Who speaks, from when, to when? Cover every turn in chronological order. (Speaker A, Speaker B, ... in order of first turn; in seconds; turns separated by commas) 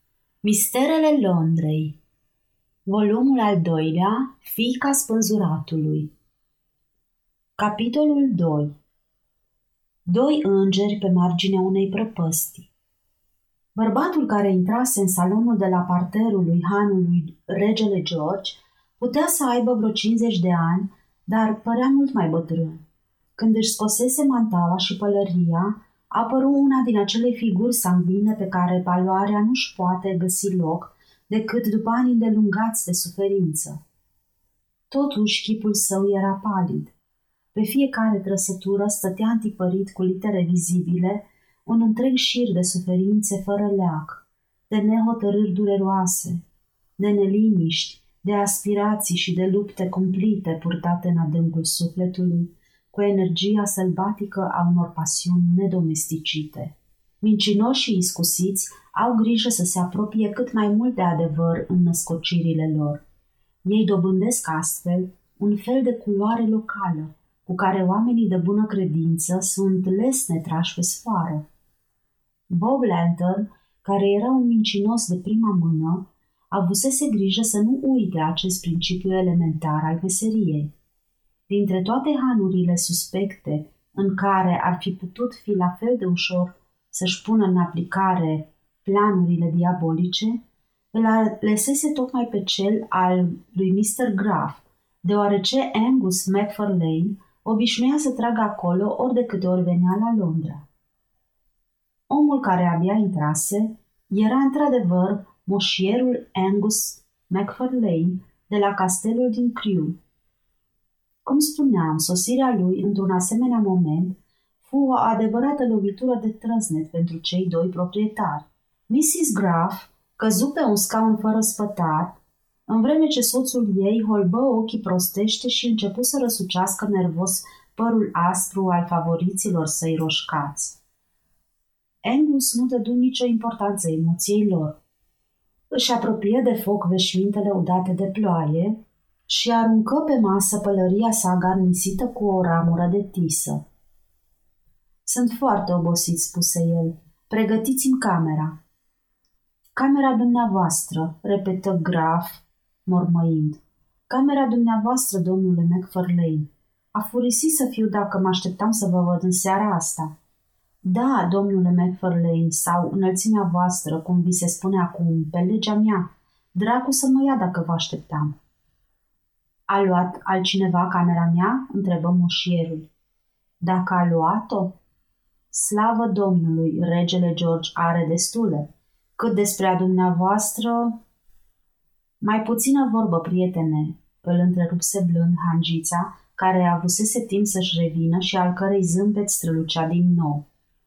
Speaker A: 0.4-1.9, Speaker A: 2.9-6.1, Speaker A: 7.6-8.7, Speaker A: 10.1-12.7, Speaker A: 13.7-22.8, Speaker A: 23.4-33.8, Speaker A: 34.9-36.9, Speaker A: 37.5-46.4, Speaker A: 47.0-63.0, Speaker A: 63.6-71.4, Speaker A: 72.5-80.7, Speaker A: 81.5-90.4, Speaker A: 90.9-100.7, Speaker A: 102.1-109.9, Speaker A: 111.2-130.8, Speaker A: 132.0-134.8, Speaker A: 135.7-138.8, Speaker A: 139.3-143.6, Speaker A: 145.1-148.5, Speaker A: 149.8-160.1, Speaker A: 160.8-168.3, Speaker A: 169.7-172.9, Speaker A: 173.6-174.8, Speaker A: 175.5-181.0, Speaker A: 182.2-190.4